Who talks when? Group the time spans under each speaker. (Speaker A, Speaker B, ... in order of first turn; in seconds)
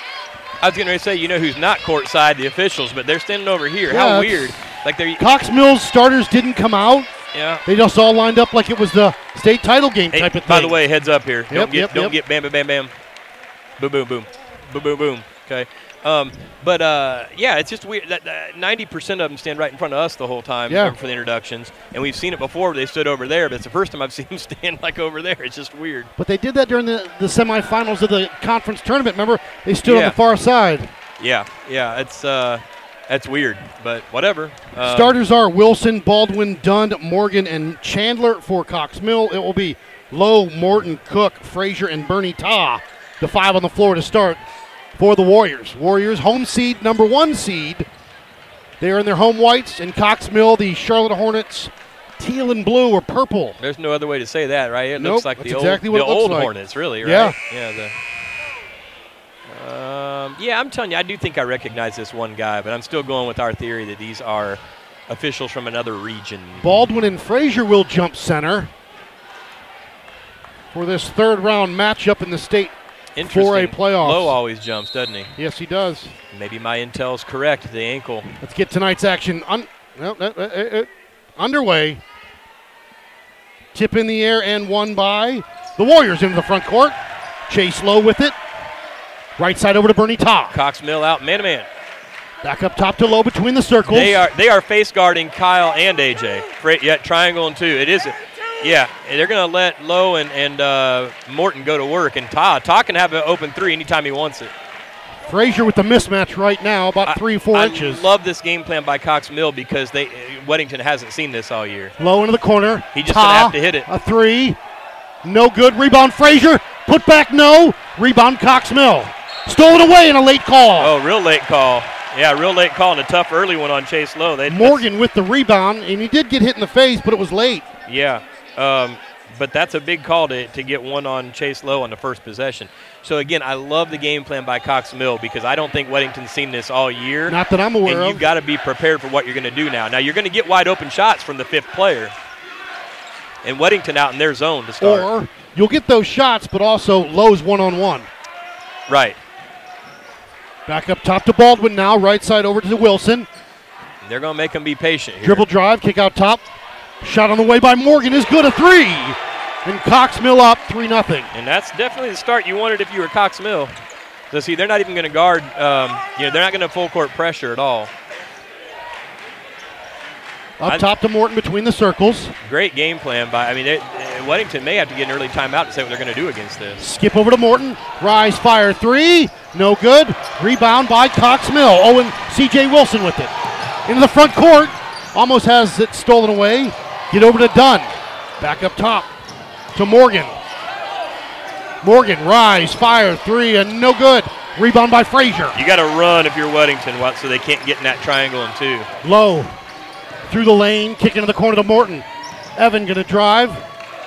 Speaker A: 0.6-5.2, 7.3-7.6, 10.1-12.9, 13.8-26.1, 29.8-30.2, 31.2-35.2, 53.6-57.9, 59.5-66.7, 73.2-75.3, 76.3-78.3, 90.5-91.7, 93.9-104.5, 107.0-111.9, 112.9-113.9, 120.8-124.9, 127.9-142.1, 143.4-145.1, 148.9-149.2, 154.0-155.5, 161.3-163.7, 164.3-167.9, 172.4-176.8, 195.5-198.9
Speaker B: 3.9-4.5, 5.2-7.1, 7.7-10.8, 11.5-12.2, 20.7-20.9, 26.2-30.9, 34.8-44.4, 45.0-47.9, 48.8-53.6, 55.0-57.4, 66.6-68.7, 70.7-74.4, 75.4-76.1, 78.4-82.0, 83.7-88.3, 89.4-90.6, 92.4-94.3, 105.3-108.0, 112.0-114.6, 115.2-120.9, 124.5-127.7, 137.3-138.2, 144.8-148.1, 150.7-153.3, 155.2-156.4, 157.0-161.3, 170.6-172.3, 176.8-183.3, 183.9-189.1, 189.7-190.4, 191.8-195.6, 199.0-199.5, 200.3-202.0, 202.6-203.6